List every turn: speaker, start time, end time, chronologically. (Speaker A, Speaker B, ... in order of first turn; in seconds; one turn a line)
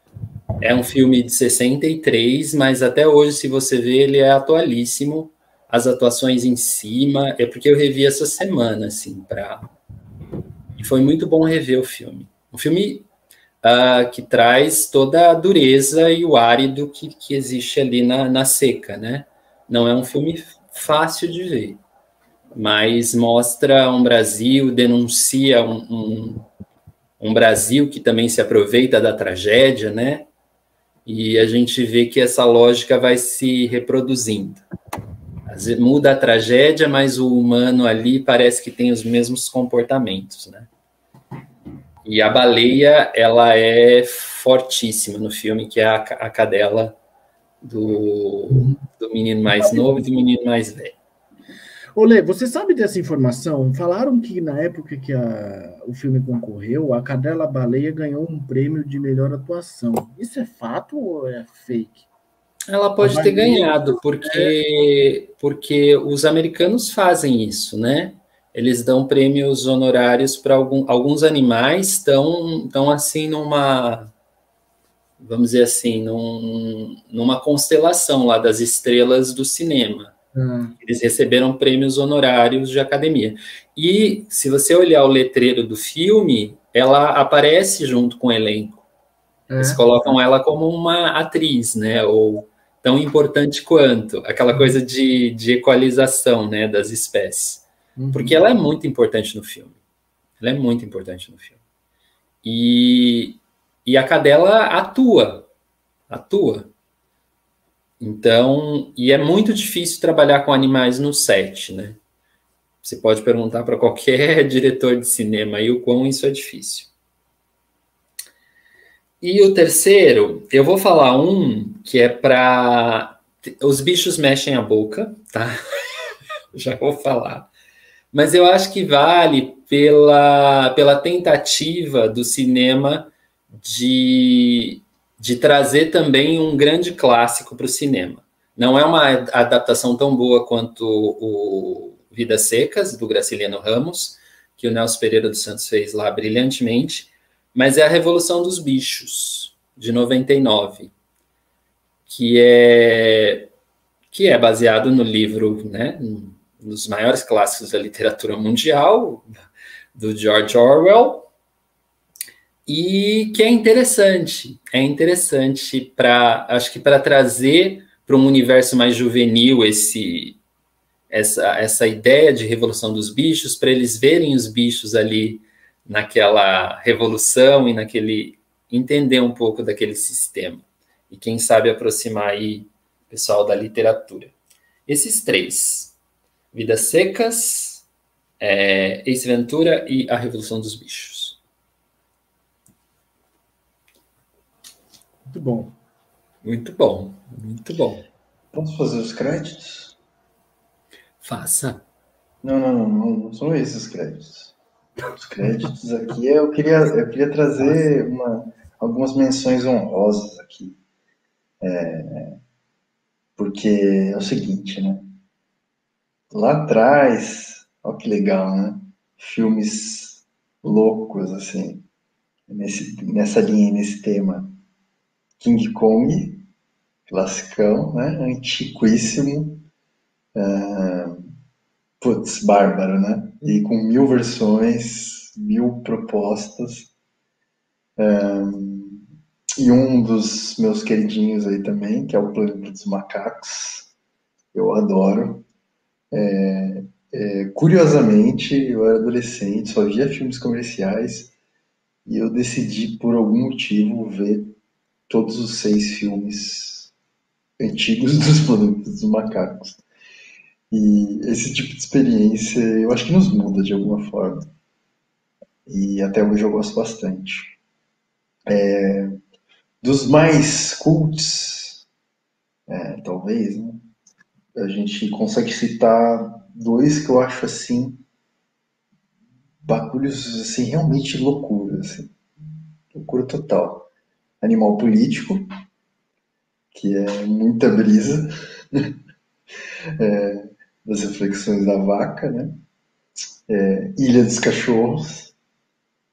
Speaker A: 0.6-9.7
Speaker A: 10.8-13.1
Speaker A: 13.6-21.8
Speaker A: 22.6-26.4
Speaker A: 27.2-30.3
Speaker A: 31.1-34.6
Speaker A: 35.5-40.7
Speaker A: 42.0-47.0
Speaker A: 47.6-51.0
Speaker B: 49.5-50.0
Speaker B: 51.9-62.0
Speaker A: 62.7-74.1
Speaker B: 63.0-64.5
Speaker A: 75.2-80.1
Speaker B: 80.3-80.7
Speaker A: 80.8-88.8
Speaker B: 89.5-90.2
Speaker A: 89.6-99.8
Speaker B: 98.0-98.4
Speaker A: 100.4-101.6
Speaker A: 102.4-105.5
Speaker A: 106.1-106.7
Speaker A: 108.0-112.0
Speaker A: 112.8-116.9
Speaker A: 119.2-125.5
Speaker A: 126.5-127.5
Speaker A: 128.1-150.9
Speaker A: 152.1-153.5
Speaker A: 154.1-159.3
Speaker A: 159.9-161.3
Speaker A: 162.7-170.4
Speaker A: 171.1-184.3
Speaker A: 184.9-185.9
Speaker A: 186.5-187.8
Speaker A: 188.4-191.4
Speaker B: 195.3-195.7
Speaker A: 196.4-198.1
Speaker C: 198.5-199.9
Speaker A: 201.2-201.8
Speaker C: 202.4-204.6
Speaker C: 205.1-210.8
Speaker C: 211.6-212.3
Speaker C: 213.4-215.1
Speaker C: 216.3-221.8
Speaker C: 222.5-224.6
Speaker C: 225.4-226.4
Speaker C: 227.1-229.6
Speaker C: 230.3-231.3
Speaker C: 232.0-236.9
Speaker C: 238.0-239.0
Speaker C: 239.6-243.9
Speaker C: 244.5-245.4
Speaker C: 246.1-251.3
Speaker C: 252.1-254.6
Speaker C: 255.1-256.9
Speaker C: 257.6-259.8
Speaker C: 260.7-264.4
Speaker C: 265.6-267.6
Speaker C: 268.5-269.1
Speaker C: 269.8-271.8
Speaker C: 272.7-273.8
Speaker C: 274.5-278.0
Speaker C: 279.6-282.1
Speaker C: 282.9-283.9
Speaker C: 284.4-285.4
Speaker C: 286.7-288.9
Speaker C: 290.0-292.6
Speaker C: 293.5-295.3